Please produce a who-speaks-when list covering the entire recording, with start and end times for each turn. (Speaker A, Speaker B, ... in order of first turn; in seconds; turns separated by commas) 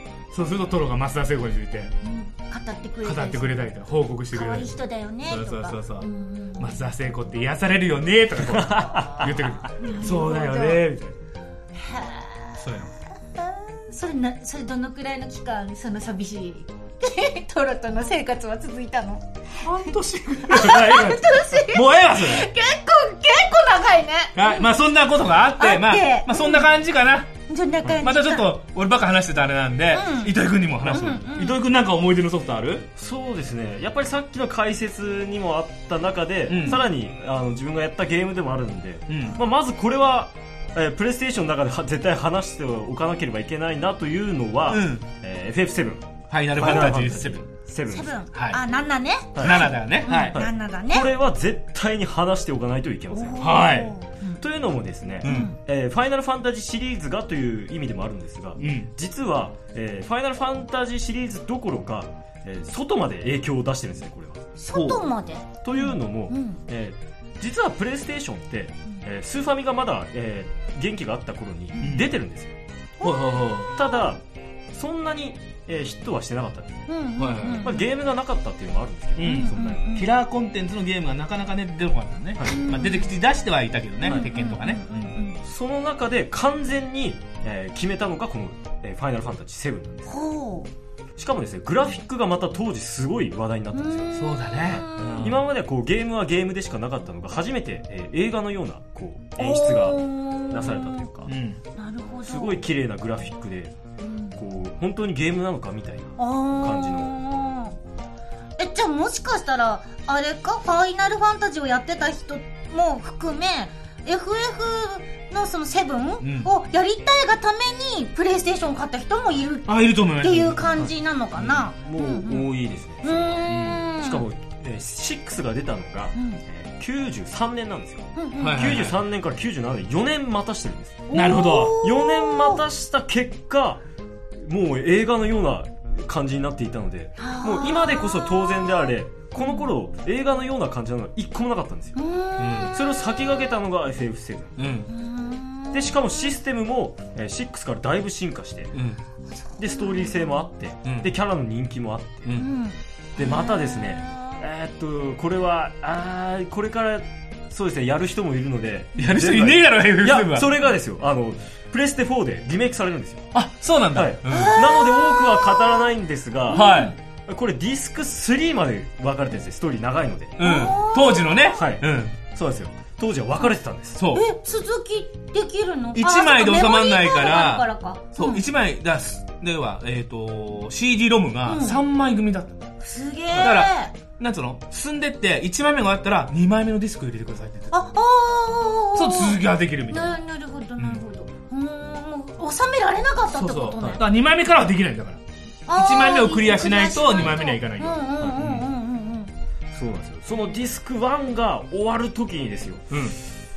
Speaker A: 0.3-1.9, Speaker B: 2.0-3.7, Speaker A: 3.0-4.7, Speaker B: 4.3-6.9, Speaker A: 5.2-11.1, Speaker B: 8.7-10.8, Speaker C: 8.8-9.2, Speaker B: 11.7-12.7, Speaker A: 12.6-12.9, Speaker B: 13.3-19.2, Speaker A: 19.6-22.5, Speaker B: 20.5-24.7, Speaker A: 24.3-27.4, Speaker B: 25.6-26.7, Speaker B: 27.5-28.5, Speaker A: 28.0-32.9, Speaker B: 29.9-30.3, Speaker B: 30.9-31.6, Speaker C: 33.0-48.2, Speaker A: 36.5-36.8, Speaker A: 39.1-39.4, Speaker A: 44.7-45.0, Speaker A: 46.3-47.4, Speaker B: 47.9-51.1, Speaker C: 49.3-49.7, Speaker A: 49.4-50.4, Speaker C: 50.3-53.5, Speaker B: 53.1-54.4, Speaker A: 53.4-53.9, Speaker C: 54.4-64.4, Speaker A: 55.2-55.5, Speaker B: 55.2-55.6, Speaker A: 58.6-58.9, Speaker B: 64.6-66.6, Speaker A: 64.7-65.1, Speaker C: 65.6-72.5, Speaker A: 71.8-72.1, Speaker B: 73.0-73.9, Speaker A: 73.0-73.7, Speaker C: 73.8-76.8, Speaker B: 76.9-77.8, Speaker A: 77.2-77.7, Speaker C: 77.6-79.8, Speaker A: 79.2-85.1, Speaker B: 79.2-80.1, Speaker B: 82.4-83.1, Speaker B: 84.0-85.4, Speaker C: 85.4-90.1, Speaker B: 90.1-90.7, Speaker C: 91.2-101.3, Speaker B: 93.7-95.3, Speaker A: 94.2-95.4, Speaker B: 99.4-101.1, Speaker A: 101.2-101.6, Speaker B: 101.7-102.6, Speaker C: 102.2-103.7, Speaker B: 104.0-104.4, Speaker C: 104.3-107.1, Speaker B: 106.2-107.7, Speaker B: 108.6-124.2, Speaker A: 116.2-116.5, Speaker A: 119.7-121.6, Speaker C: 121.7-131.1, Speaker A: 123.5-123.8, Speaker B: 126.1-126.4, Speaker B: 128.1-128.7, Speaker A: 128.4-129.0, Speaker B: 131.1-132.6, Speaker A: 131.1-131.8, Speaker C: 131.8-133.8, Speaker C: 134.4-142.0, Speaker B: 137.2-139.6, Speaker B: 141.9-142.7, Speaker A: 142.4-142.7, Speaker C: 142.7-144.6, Speaker A: 144.6-144.9, Speaker B: 144.9-146.3, Speaker C: 145.7-148.8, Speaker A: 148.7-149.0, Speaker C: 149.6-152.4, Speaker B: 149.7-150.3, Speaker A: 150.8-151.1, Speaker A: 152.2-152.5, Speaker B: 152.3-154.4, Speaker C: 153.2-163.3, Speaker A: 159.0-160.5, Speaker A: 163.3-164.6, Speaker C: 163.9-166.6, Speaker B: 164.3-165.9, Speaker B: 166.5-166.9, Speaker A: 166.5-166.9, Speaker C: 167.2-170.4, Speaker A: 170.4-172.2, Speaker B: 170.4-171.5, Speaker C: 171.5-174.0, Speaker A: 173.9-174.2, Speaker B: 174.1-178.4, Speaker A: 175.9-182.5, Speaker B: 181.4-181.8, Speaker B: 182.8-183.9, Speaker C: 183.3-183.6, Speaker A: 183.4-187.7, Speaker B: 187.7-194.0, Speaker A: 188.9-190.2, Speaker A: 193.3-195.2, Speaker B: 195.7-199.3, Speaker A: 195.7-198.7, Speaker C: 198.2-198.6, Speaker C: 199.7-203.0, Speaker A: 202.9-203.2